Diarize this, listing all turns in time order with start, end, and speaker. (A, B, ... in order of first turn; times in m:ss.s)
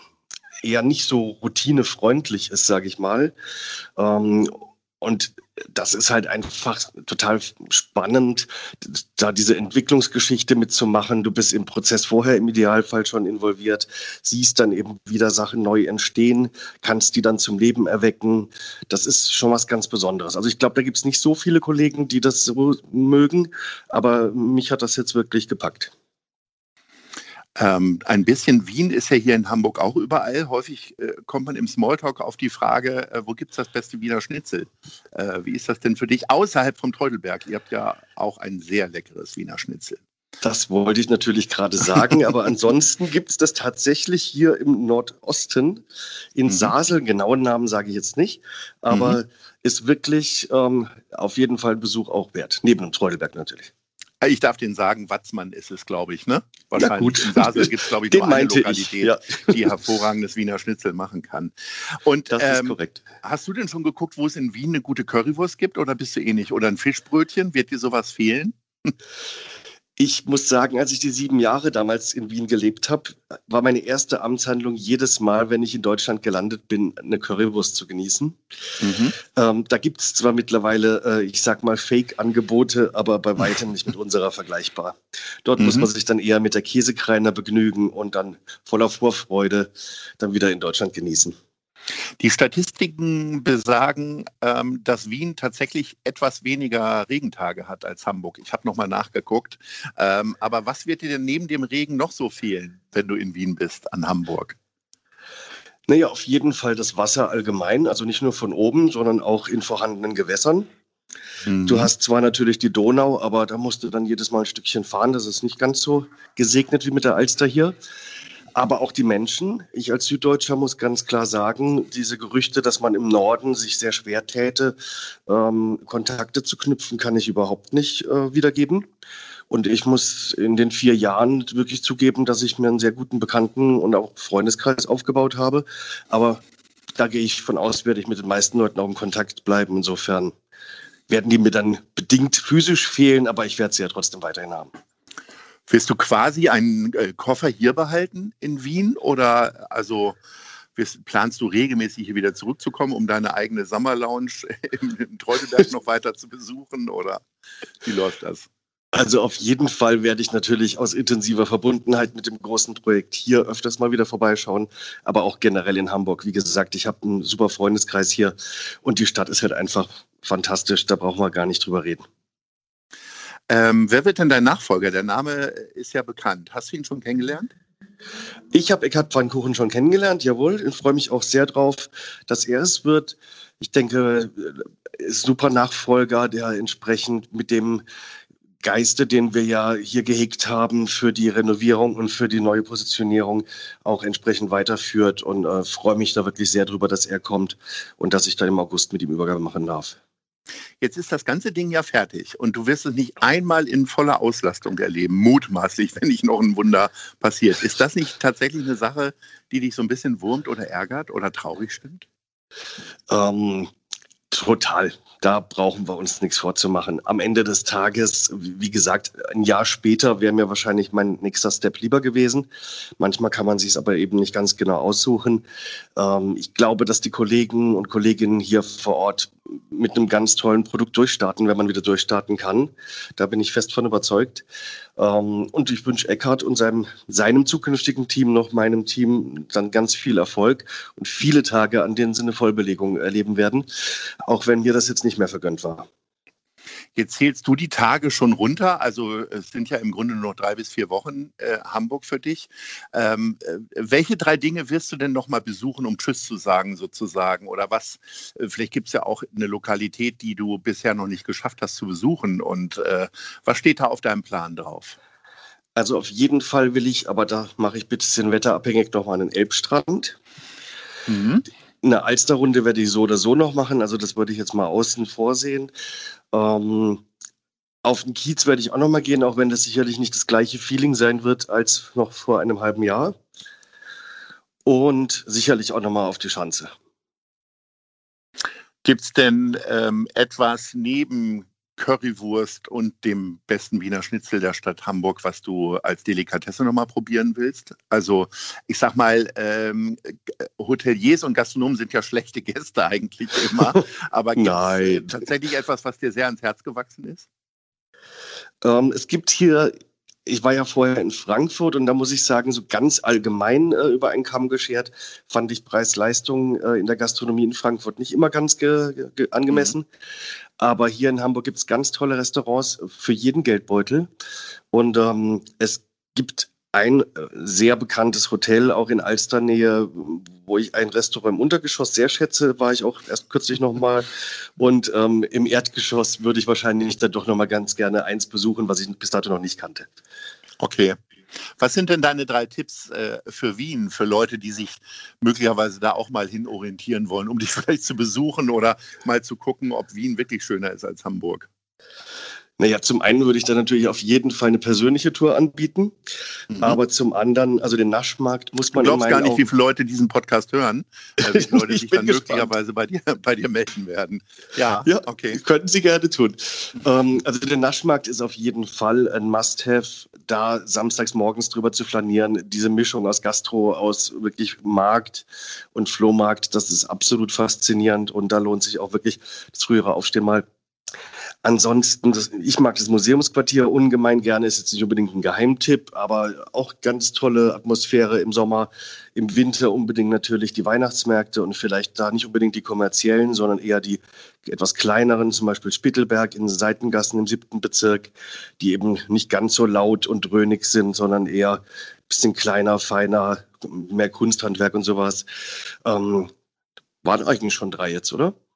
0:00.6-0:03.3 A
0:04.0-0:25.9 A
0:27.6-0:40.0 B
0:40.4-0:45.8 A
0:46.4-0:53.7 A
0:46.5-0:46.7 B
0:48.9-0:49.2 B
0:54.2-1:08.9 B
0:56.8-0:59.7 A
1:02.3-1:03.0 A
1:10.0-1:18.4 A
1:18.8-1:19.2 B
1:19.3-1:31.4 A
1:25.6-1:25.9 B
1:32.2-1:44.6 B
1:45.9-1:50.7 A
1:51.5-1:51.9 B
1:51.7-1:57.8 A
1:58.6-2:08.9 A
2:09.5-2:16.4 A
2:17.0-2:20.4 A
2:21.1-2:24.7 A
2:25.7-2:30.2 B
2:30.8-2:37.2 B
2:37.8-2:38.5 B
2:38.9-2:52.0 A
2:53.5-2:57.5 B
2:58.5-3:07.8 A
3:08.6-3:20.0 A
3:20.8-3:32.1 B
3:33.1-3:33.7 A
3:34.3-3:45.4 A
3:46.0-3:54.5 A
3:55.0-4:05.9 A
4:07.0-4:25.0 B
4:25.8-4:30.2 A
4:31.1-4:31.4 B
4:31.8-4:35.7 A
4:36.3-4:37.0 A
4:37.8-4:43.2 A
4:44.6-4:46.7 A
4:48.8-5:07.3 B
5:04.4-5:05.2 A
5:08.6-5:09.7 A
5:10.3-5:19.9 A
5:20.6-5:24.1 A
5:24.7-5:39.9 A
5:40.6-5:41.0 B
5:41.6-5:51.5 B
5:52.6-5:56.0 A
5:56.6-5:59.5 A
5:58.8-6:05.4 B
6:01.2-6:02.5 A
6:04.8-6:20.4 A
6:21.4-6:46.3 A
6:47.0-6:48.4 A